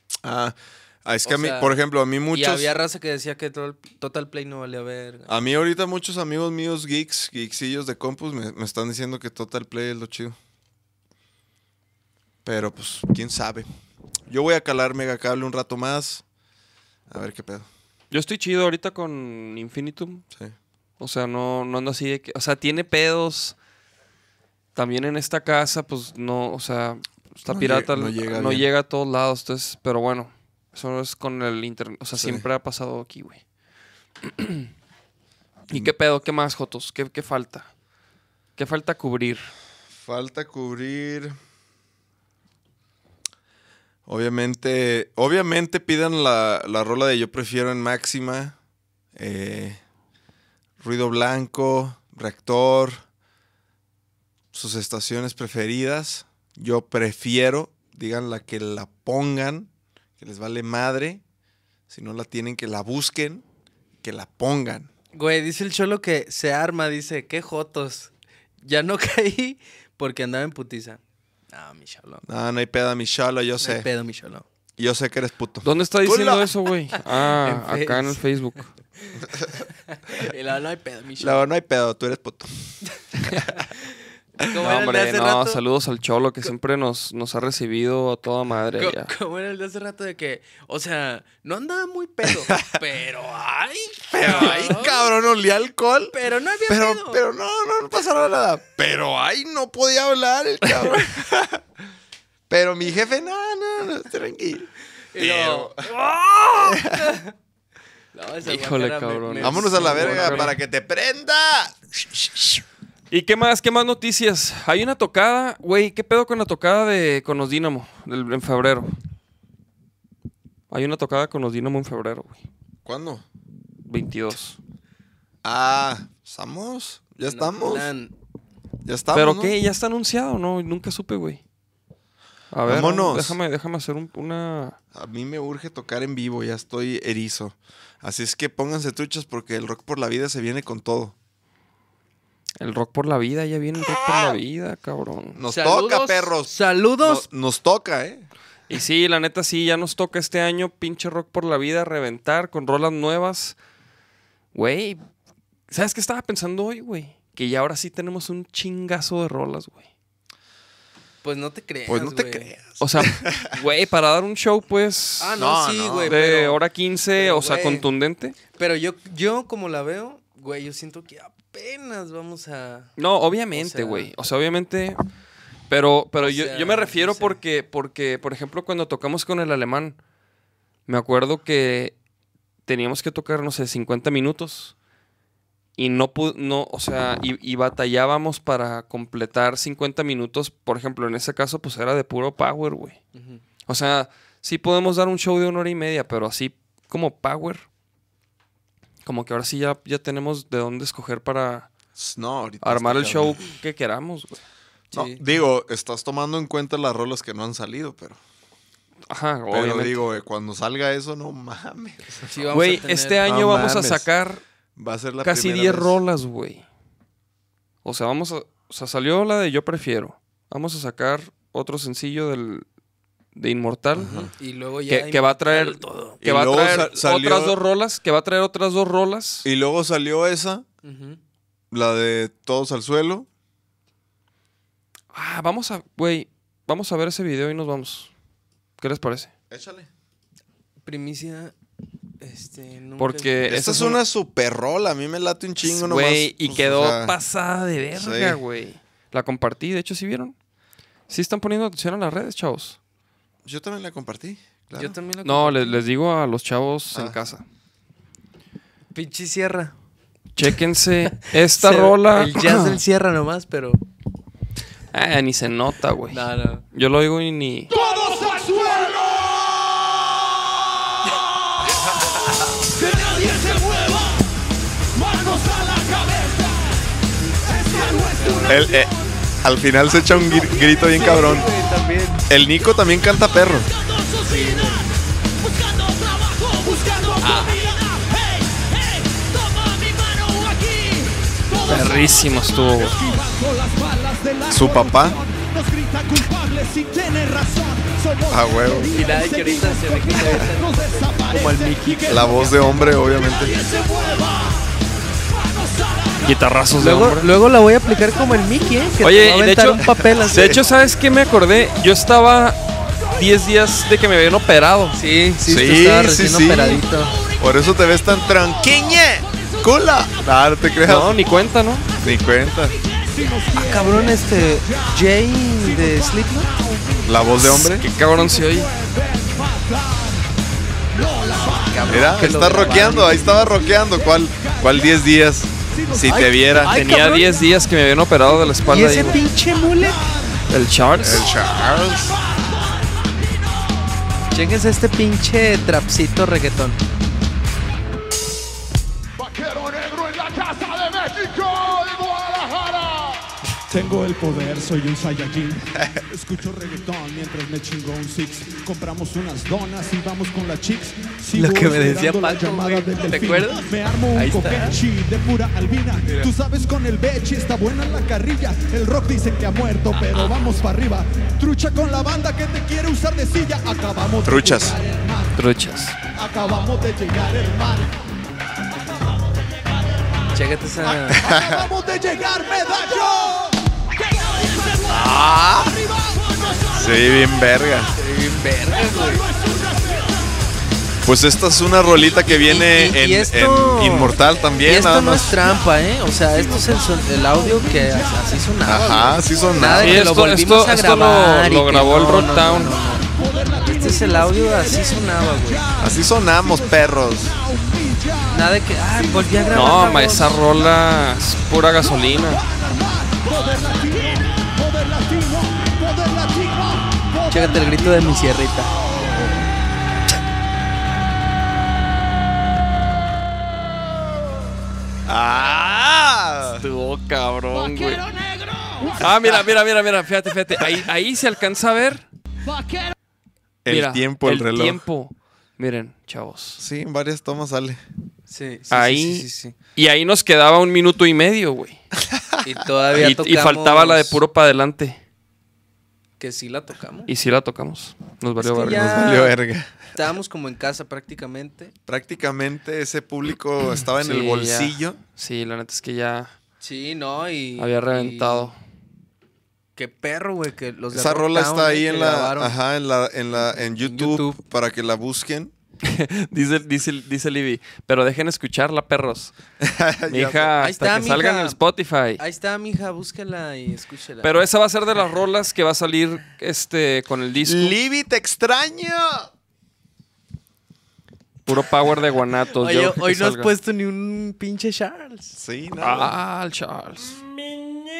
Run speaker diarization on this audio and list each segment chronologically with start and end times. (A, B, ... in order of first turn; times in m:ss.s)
0:00.2-0:02.7 A
0:01.3-0:05.3 B
0:05.3-0:10.4 A
0:12.4-0:13.7 A
0:14.3-0:16.2 A
0:17.1-0:17.7 A
0:18.1-0:20.2 C
0:21.0-0:23.6 C
0:24.8-0:33.4 C
0:27.5-0:28.7 A
0:32.1-0:32.4 A
0:34.2-0:34.7 C
0:35.7-0:37.7 C
0:38.6-0:39.5 C
0:39.9-0:41.4 A
0:44.1-0:48.6 A
0:49.2-0:49.8 A
0:50.8-0:53.0 A
0:54.5-1:01.2 A
1:01.9-1:03.4 A
1:04.0-1:04.9 A
1:05.1-1:11.0 B
1:11.5-1:12.2 B
1:12.2-1:13.9 A
1:13.6-1:14.5 B
1:14.8-1:16.6 A
1:15.6-1:18.7 C
1:17.2-1:18.2 B
1:19.0-1:19.3 B
1:19.4-1:19.6 A
1:19.8-1:21.5 B
1:21.2-1:23.5 A
1:24.4-1:25.6 B
1:24.6-1:29.1 C
1:28.8-1:35.1 B
1:34.1-1:36.2 A
1:34.2-1:34.7 C
1:36.1-1:37.2 B
1:36.7-1:41.6 A
1:42.5-1:45.9 A
1:45.1-1:45.8 B
1:46.6-1:47.1 A
1:46.8-1:47.3 B
1:48.1-1:50.6 B
1:48.4-1:50.5 C
1:49.4-1:52.6 A
1:53.1-1:58.9 C
2:00.7-2:02.4 C
2:02.8-2:03.2 A
2:03.9-2:04.6 C
2:05.4-2:07.9 A
2:07.3-2:08.1 B
2:08.8-2:09.6 A
2:09.1-2:11.4 C
2:12.5-2:14.8 C
2:12.7-2:13.4 A
2:14.9-2:21.2 A
2:22.6-2:25.4 C
2:25.4-2:28.3 A
2:25.5-2:27.3 B
2:28.7-2:33.6 C
2:34.5-2:35.0 C
2:35.7-2:39.9 C
2:41.2-2:42.5 B
2:41.9-2:43.6 A
2:42.8-2:45.4 C
2:45.2-2:46.6 B
2:45.4-2:46.2 A
2:46.1-2:48.4 C
2:47.2-2:47.9 B
2:48.6-2:52.9 B
2:53.0-2:55.0 C
2:53.5-2:54.1 B
2:55.7-3:00.0 C
2:56.2-2:57.4 B
3:00.9-3:02.0 C
3:02.7-3:04.7 C
3:05.8-3:13.0 C
3:13.1-3:13.4 B
3:13.7-3:17.7 C
3:19.0-3:21.7 C
3:22.0-3:23.4 A
3:22.6-3:24.4 C
3:24.9-3:25.2 B
3:24.9-3:28.2 A
3:29.1-3:30.0 C
3:29.5-3:32.5 A
3:32.3-3:33.3 B
3:32.5-3:34.4 C
3:33.2-3:34.1 A
3:34.8-3:36.0 A
3:35.2-3:36.6 C
3:37.8-3:42.6 C
3:43.4-3:44.1 C
3:44.0-3:44.3 A
3:44.1-3:46.2 B
3:44.9-3:49.5 C
3:46.2-3:47.6 A
3:49.4-3:50.6 A
3:50.8-3:51.2 B
3:51.7-3:53.3 A
3:55.1-3:58.1 C
3:58.8-3:59.3 C
3:59.5-3:59.9 A
4:00.8-4:01.5 B
4:02.2-4:03.4 B
4:03.0-4:04.0 C
4:03.5-4:07.1 A
4:05.6-4:10.4 C
4:07.9-4:08.4 A
4:11.1-4:12.8 C
4:13.4-4:15.0 A
4:14.7-4:15.8 B
4:15.2-4:17.4 C
4:16.9-4:17.2 A
4:18.9-4:19.8 B
4:20.4-4:22.8 C
4:21.2-4:23.8 B
4:24.9-4:27.7 C
4:26.1-4:26.6 B
4:27.7-4:29.6 D
4:32.6-4:34.3 D
4:34.9-4:36.8 D
4:37.4-4:38.8 B
4:37.4-4:38.9 D
4:38.5-4:38.9 A
4:39.4-4:41.5 A
4:40.6-4:42.3 B
4:42.3-4:43.7 A
4:43.9-4:44.8 D
4:44.2-4:44.8 B
4:45.4-4:52.2 D
4:47.2-4:47.6 B
4:51.7-4:53.0 C
4:52.8-5:04.7 D
4:54.5-4:55.2 A
4:58.3-4:59.0 A
4:58.9-5:02.5 B
5:02.1-5:03.6 A
5:05.3-5:06.3 D
5:06.2-5:07.3 C
5:06.8-5:10.6 B
5:09.0-5:15.0 C
5:10.2-5:10.6 A
5:14.9-5:17.2 B
5:15.5-5:16.8 A
5:17.4-5:21.1 A
5:19.2-5:19.7 D
5:20.8-5:21.9 C
5:22.0-5:22.8 A
5:22.8-5:27.2 D
5:23.6-5:26.5 B
5:27.0-5:27.9 A
5:27.4-5:28.7 C
5:28.0-5:30.3 D
5:30.9-5:35.0 D
5:31.5-5:33.2 B
5:31.9-5:36.7 A
5:35.7-5:36.7 D
5:36.1-5:37.3 B
5:36.7-5:39.2 C
5:38.7-5:40.0 B
5:39.8-5:40.4 D
5:40.5-5:41.3 C
5:41.0-5:42.2 A
5:42.1-5:42.4 D
5:44.3-5:46.8 B
5:49.2-6:15.4 D
6:01.3-6:04.8 B
6:06.0-6:06.3 B
6:14.2-6:14.8 A
6:15.4-6:16.0 C
6:16.1-6:18.0 D
6:20.3-6:21.2 B
6:20.8-6:27.2 D
6:21.2-6:21.7 A
6:24.9-6:25.8 A
6:26.7-6:27.9 A
6:28.0-6:29.2 B
6:28.8-6:30.2 D
6:31.0-6:35.4 A
6:32.3-6:43.1 B
6:35.4-6:38.6 D
6:38.6-6:40.0 A
6:39.8-6:42.8 C
6:43.0-6:50.7 D
6:43.6-6:45.6 B
6:45.8-6:47.4 A
6:48.3-6:50.4 B
6:49.5-6:52.4 C
6:51.8-6:59.3 D
6:57.3-6:58.7 B
7:05.0-7:06.6 A
7:06.5-7:08.0 C
7:07.5-7:09.1 D
7:09.0-7:12.1 C
7:12.5-7:12.9 D
7:13.6-7:14.8 A
7:13.7-7:16.6 C
7:16.6-7:17.8 A
7:18.3-7:19.6 B
7:18.7-7:21.8 C
7:22.1-7:22.4 A
7:22.4-7:24.2 B
7:23.0-7:25.0 C
7:26.2-7:27.1 B
7:27.1-7:29.1 C
7:28.4-7:29.4 B
7:28.7-7:29.9 A
7:30.0-7:31.7 B
7:31.9-7:35.0 A
7:34.0-7:36.3 C
7:36.6-7:38.5 B
7:37.6-7:38.6 C
7:39.8-7:42.6 B
7:40.9-7:45.5 A
7:43.4-7:44.4 B
7:45.8-7:49.3 C
7:49.6-7:50.5 A
7:50.1-7:52.2 C
7:50.6-7:51.6 B
7:52.2-7:54.3 B
7:54.2-7:57.8 C
7:57.4-7:59.3 A
8:01.5-8:03.5 C
8:02.6-8:05.4 B
8:05.4-8:06.2 A
8:05.8-8:07.2 C